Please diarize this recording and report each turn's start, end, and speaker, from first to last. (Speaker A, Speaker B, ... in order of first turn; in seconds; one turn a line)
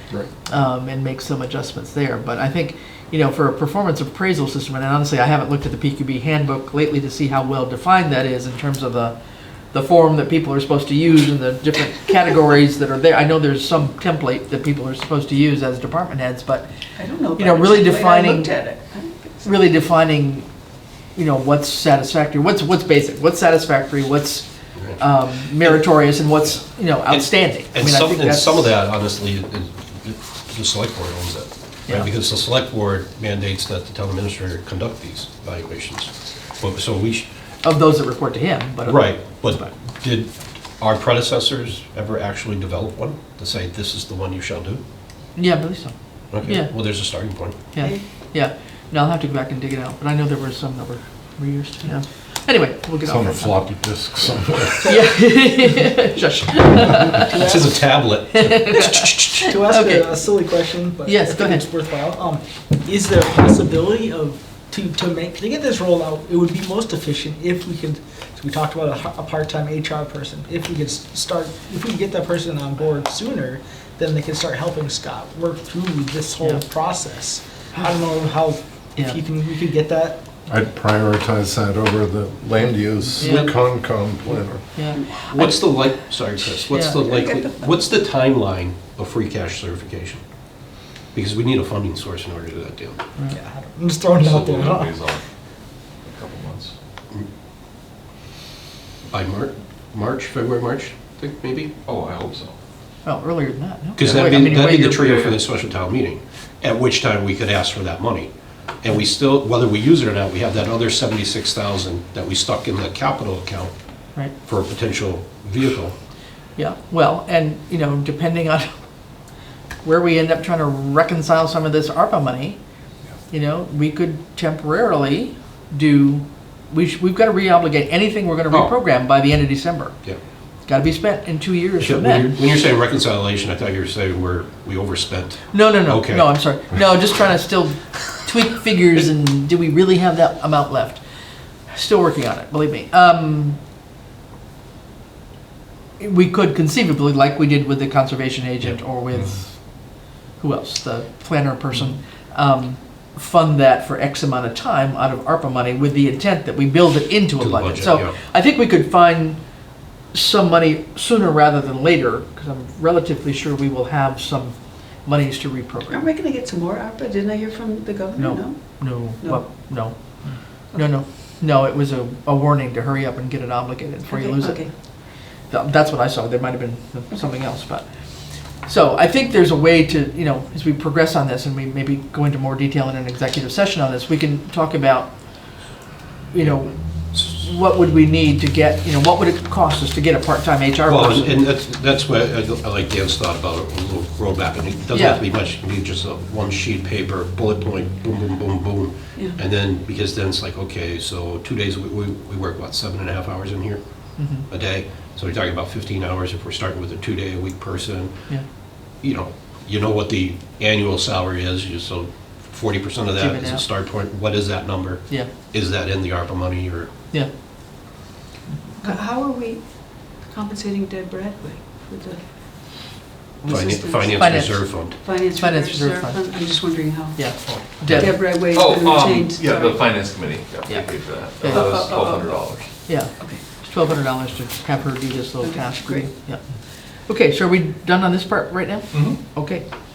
Speaker A: 0.5-9.1
Speaker A: 9.7-16.7
Speaker B: 16.9-19.6
Speaker A: 17.4-18.5
Speaker A: 19.4-20.5
Speaker A: 21.1-24.4
Speaker A: 25.0-28.7
Speaker C: 27.1-37.2
Speaker A: 37.6-39.7
Speaker C: 38.8-44.8
Speaker A: 45.4-53.5
Speaker C: 46.3-47.7
Speaker D: 53.0-55.0
Speaker A: 54.8-57.3
Speaker E: 57.0-57.7
Speaker C: 57.3-59.5
Speaker A: 58.3-60.1
Speaker E: 59.4-80.2
Speaker A: 61.0-61.6
Speaker D: 80.5-84.6
Speaker A: 83.1-83.5
Speaker A: 84.7-85.7
Speaker C: 85.2-90.2
Speaker A: 86.7-87.0
Speaker B: 87.2-87.8
Speaker C: 91.1-93.0
Speaker E: 93.3-94.9
Speaker F: 94.2-95.2
Speaker F: 96.0-96.7
Speaker C: 99.1-101.7
Speaker F: 101.8-102.5
Speaker A: 103.0-105.3
Speaker C: 104.0-113.7
Speaker C: 114.4-115.9
Speaker A: 116.5-118.7
Speaker A: 119.8-122.6
Speaker A: 123.3-129.9
Speaker C: 128.5-128.7
Speaker A: 130.7-132.4
Speaker C: 131.8-136.4
Speaker A: 135.5-141.0
Speaker A: 141.7-143.6
Speaker A: 146.0-149.6
Speaker A: 150.4-159.4
Speaker C: 157.4-158.1
Speaker A: 160.1-166.1
Speaker B: 165.9-169.6
Speaker A: 168.2-174.7
Speaker B: 174.1-174.7
Speaker A: 175.5-177.8
Speaker A: 178.7-185.1
Speaker A: 186.3-191.3
Speaker C: 190.9-203.8
Speaker A: 194.9-195.2
Speaker A: 204.2-204.5
Speaker C: 204.4-208.1
Speaker C: 209.0-216.9
Speaker A: 213.1-213.7
Speaker B: 218.8-222.2
Speaker A: 223.4-228.1
Speaker C: 223.5-225.0
Speaker B: 224.9-229.8
Speaker C: 227.9-228.2
Speaker F: 228.1-232.7
Speaker A: 230.7-231.8
Speaker B: 231.5-232.4
Speaker A: 232.8-239.6
Speaker B: 233.1-233.4
Speaker B: 235.4-236.1
Speaker F: 238.9-239.2